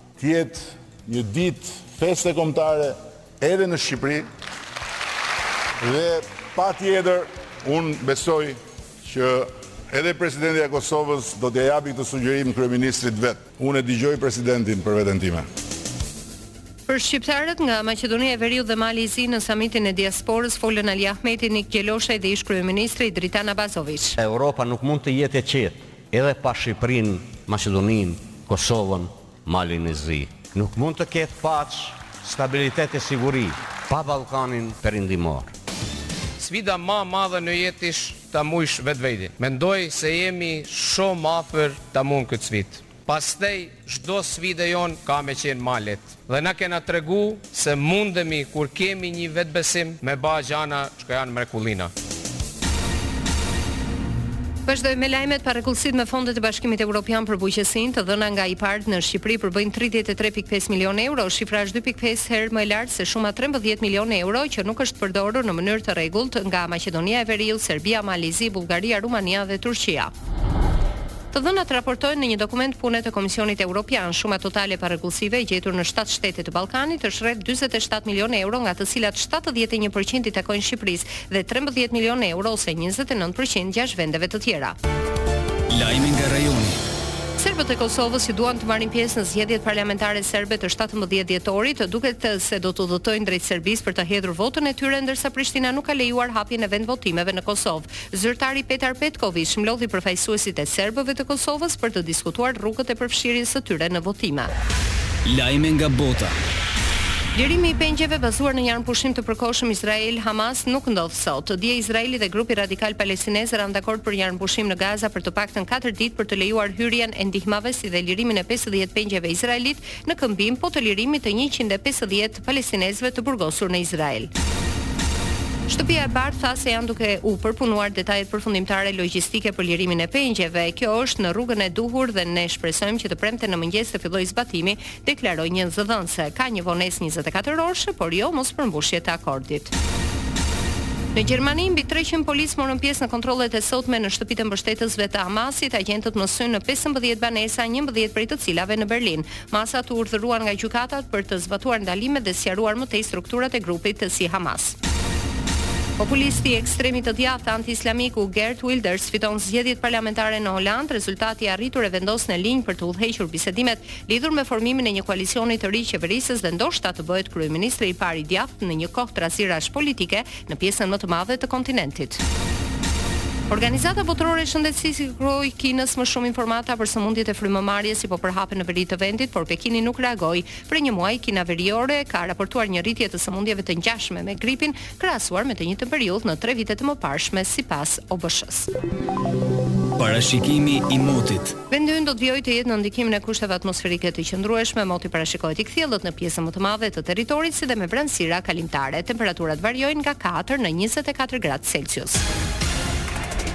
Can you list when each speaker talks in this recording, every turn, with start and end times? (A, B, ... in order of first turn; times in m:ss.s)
0:00.2-0:04.3 A
0:05.8-0:15.4 A
0:16.9-0:24.2 B
0:24.2-0:35.5 C
0:36.4-0:51.9 D
0:54.7-1:10.1 B
1:11.3-1:24.8 B
1:25.7-1:26.8 E
1:27.4-1:44.5 B
1:45.2-1:46.3 E
1:47.4-2:04.3 B
2:05.7-2:19.7 B
2:21.2-2:34.8 B
2:36.0-2:52.2 B
2:53.5-3:08.7 B
3:10.0-3:11.6 E
3:11.7-3:22.2 B